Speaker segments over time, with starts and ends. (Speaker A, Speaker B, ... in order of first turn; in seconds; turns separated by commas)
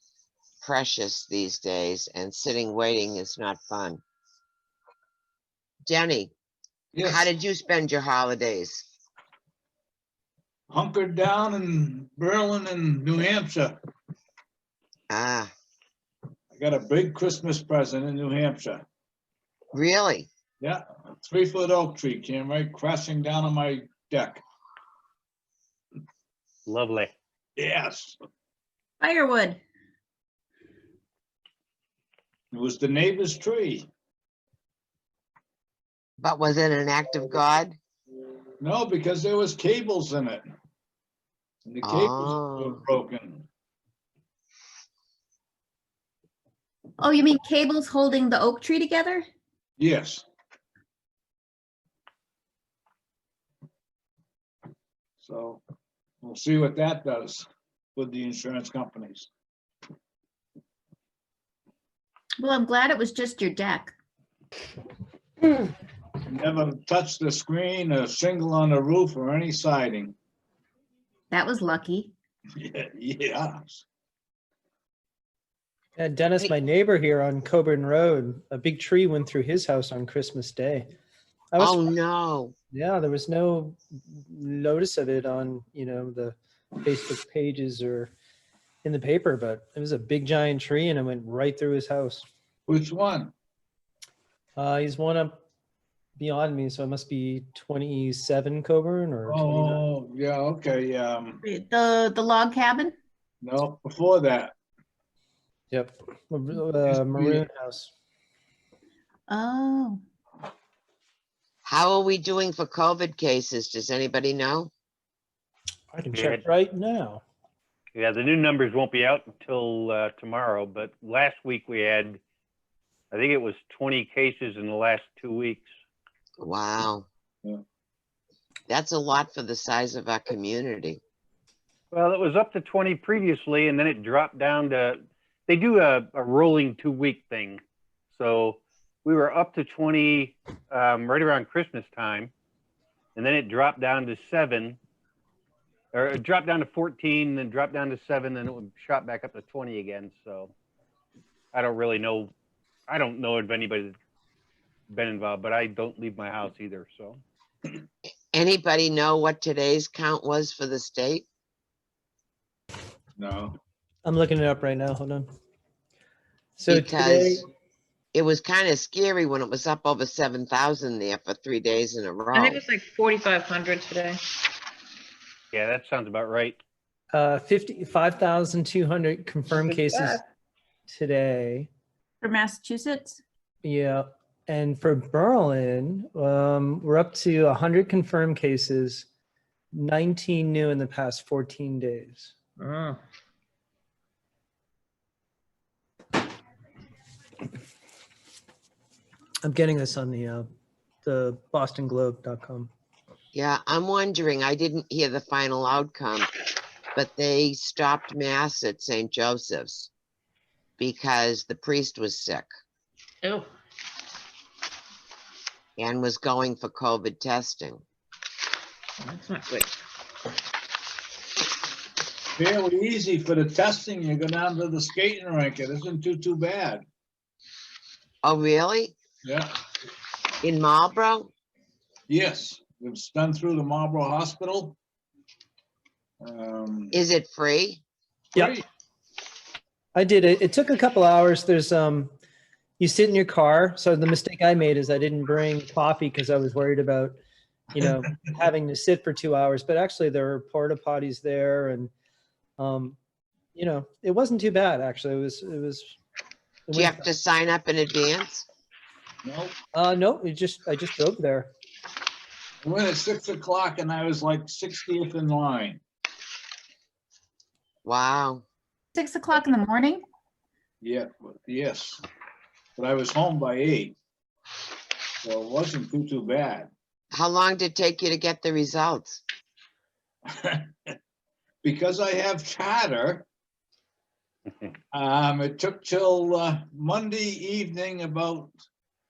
Speaker A: 0.6-4.0, Speaker A: 5.8-6.3, Speaker B: 6.9-7.3, Speaker A: 7.0-8.8, Speaker B: 10.7-13.8, Speaker A: 15.1-15.5, Speaker B: 16.5-18.9, Speaker A: 19.7-20.3, Speaker B: 20.6-24.4, Speaker C: 26.7-27.1, Speaker B: 27.6-28.1, Speaker D: 29.0-29.6, Speaker B: 32.5-33.9, Speaker A: 36.2-37.8, Speaker B: 38.6-40.4, Speaker B: 41.6-43.5, Speaker A: 41.8-42.8, Speaker D: 47.0-49.2, Speaker B: 49.8-50.2, Speaker B: 55.2-55.6, Speaker B: 56.2-59.3, Speaker D: 62.4-63.9, Speaker B: 66.3-70.1, Speaker D: 71.3-72.1, Speaker B: 72.6-73.8, Speaker E: 76.0-80.9, Speaker E: 81.5-81.9, Speaker A: 81.6-82.5, Speaker E: 82.7-88.1, Speaker E: 88.8-92.2, Speaker B: 92.7-93.3, Speaker E: 94.6-95.3, Speaker E: 96.2-99.8, Speaker B: 99.3-101.4, Speaker D: 101.4-102.9, Speaker B: 103.4-104.5, Speaker E: 105.7-107.9, Speaker B: 106.9-107.4, Speaker D: 109.3-110.0, Speaker A: 111.6-114.7, Speaker E: 115.9-117.2, Speaker C: 116.1-116.4, Speaker C: 117.9-122.2, Speaker C: 123.1-125.7, Speaker A: 126.4-127.1, Speaker A: 128.7-131.0, Speaker C: 131.9-137.6, Speaker C: 138.1-142.3, Speaker C: 143.2-144.8, Speaker C: 145.9-150.5, Speaker C: 151.5-152.3, Speaker C: 152.9-153.9, Speaker C: 154.9-157.2, Speaker A: 158.3-161.2, Speaker B: 163.2-163.6, Speaker E: 164.0-165.3, Speaker E: 166.6-167.4, Speaker A: 166.7-167.4, Speaker A: 168.1-172.6, Speaker F: 172.3-174.2, Speaker C: 175.5-176.6, Speaker E: 177.1-180.2, Speaker F: 179.5-180.2, Speaker E: 180.9-181.7, Speaker D: 182.2-183.2, Speaker E: 183.6-189.1, Speaker E: 189.7-192.3, Speaker F: 192.6-193.0, Speaker E: 199.4-200.4, Speaker E: 201.0-202.7, Speaker A: 203.3-206.3, Speaker A: 206.9-209.9, Speaker A: 210.8-212.5, Speaker F: 213.2-213.5, Speaker A: 215.8-217.8, Speaker F: 219.0-219.7, Speaker B: 222.3-226.8, Speaker A: 228.2-228.9, Speaker B: 229.2-229.5, Speaker A: 230.4-231.3, Speaker B: 232.1-234.8, Speaker B: 236.2-237.0, Speaker A: 236.9-237.8, Speaker B: 238.3-238.6, Speaker E: 239.9-242.1, Speaker E: 242.8-247.2, Speaker E: 247.7-251.9, Speaker E: 252.6-253.0, Speaker E: 253.5-256.0, Speaker E: 256.7-257.1, Speaker A: 256.7-258.4, Speaker B: 259.2-259.6, Speaker E: 259.7-261.5, Speaker B: 262.6-265.8, Speaker A: 267.8-268.4, Speaker D: 268.9-270.0, Speaker B: 270.8-272.0, Speaker B: 272.8-273.9, Speaker B: 275.2-276.7, Speaker A: 277.1-279.2, Speaker B: 280.3-280.9, Speaker B: 281.6-283.3, Speaker B: 284.9-288.5